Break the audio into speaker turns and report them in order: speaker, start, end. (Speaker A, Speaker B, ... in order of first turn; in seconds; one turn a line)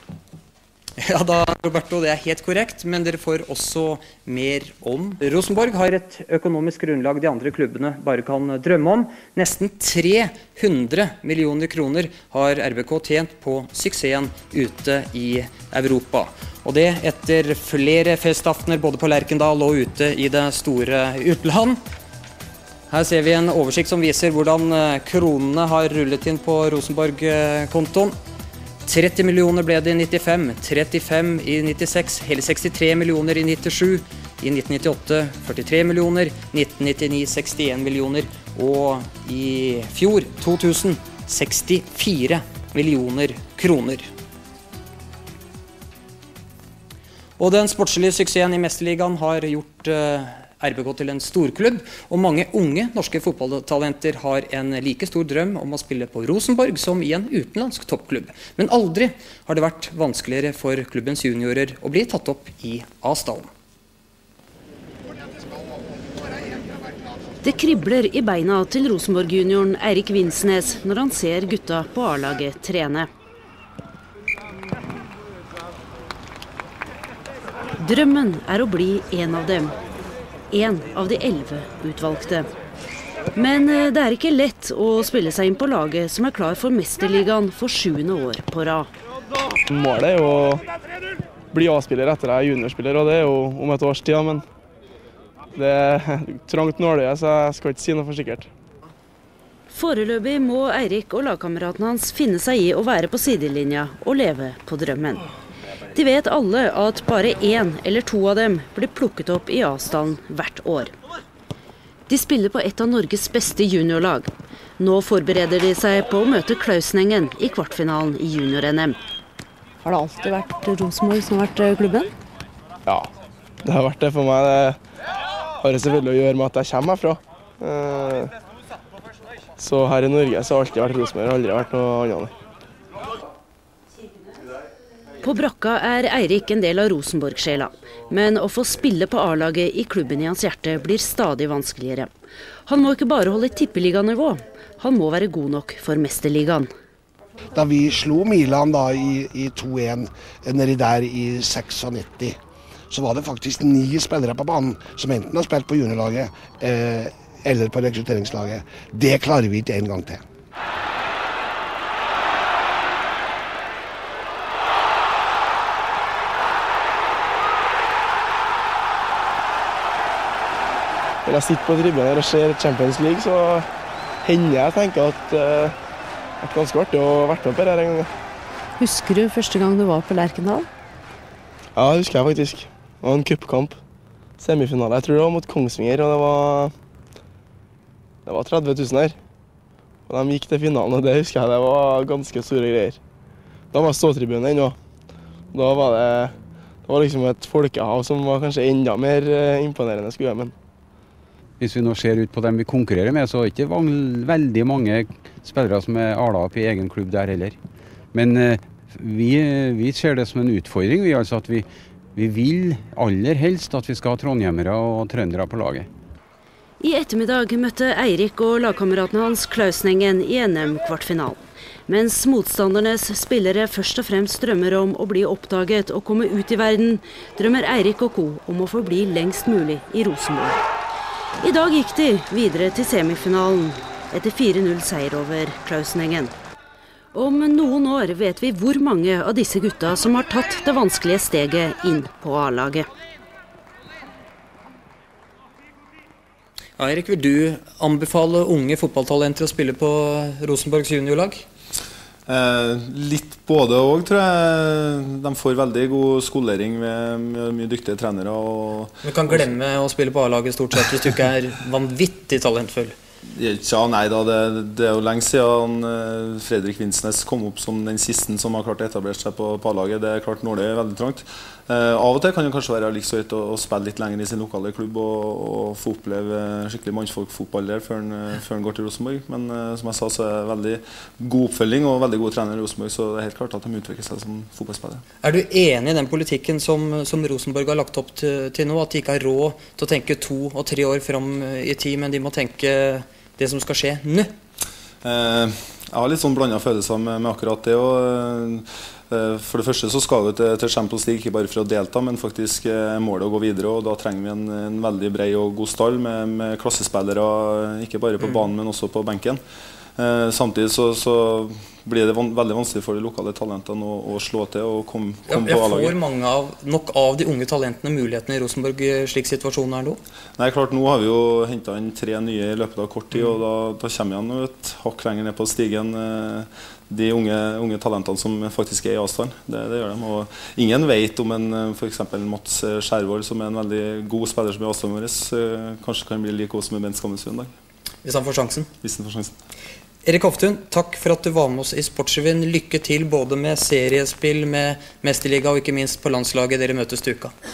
Speaker A: 1.0-21.8
Speaker A: 22.9-28.1
Speaker A: 28.8-44.1
Speaker A: 47.4-63.5
Speaker B: 67.4-73.1
Speaker B: 77.8-79.7
Speaker B: 80.5-82.5
Speaker B: 83.3-88.9
Speaker C: 89.7-90.6
Speaker C: 91.5-94.4
Speaker C: 95.5-98.5
Speaker B: 99.7-105.2
Speaker B: 105.9-110.9
Speaker B: 112.1-119.0
Speaker D: 119.8-122.1
Speaker C: 123.6-124.8
Speaker C: 125.6-128.3
Speaker C: 129.6-132.3
Speaker B: 135.2-142.1
Speaker B: 142.7-146.7
Speaker E: 147.5-152.4
Speaker E: 152.9-160.2
Speaker C: 171.2-173.7
Speaker C: 174.2-175.7
Speaker C: 176.4-178.1
Speaker D: 178.8-180.7
Speaker C: 181.8-183.8
Speaker C: 184.4-186.7
Speaker C: 188.2-189.2
Speaker C: 190.1-193.0
Speaker C: 193.7-194.8
Speaker C: 195.5-196.3
Speaker C: 196.8-200.5
Speaker F: 201.6-207.6
Speaker F: 208.1-215.9
Speaker B: 216.8-230.6
Speaker B: 231.4-236.3
Speaker B: 237.1-242.9
Speaker A: 246.8-251.4
Speaker G: 252.3-259.4
Speaker A: 259.0-262.9
Speaker G: 263.4-285.0
Speaker A: 285.2-294.3
Speaker G: 295.0-309.4
Speaker G: 310.0-316.0
Speaker A: 315.3-320.0
Speaker G: 320.4-337.5
Speaker A: 338.0-338.7
Speaker G: 338.8-339.3
Speaker A: 340.0-347.3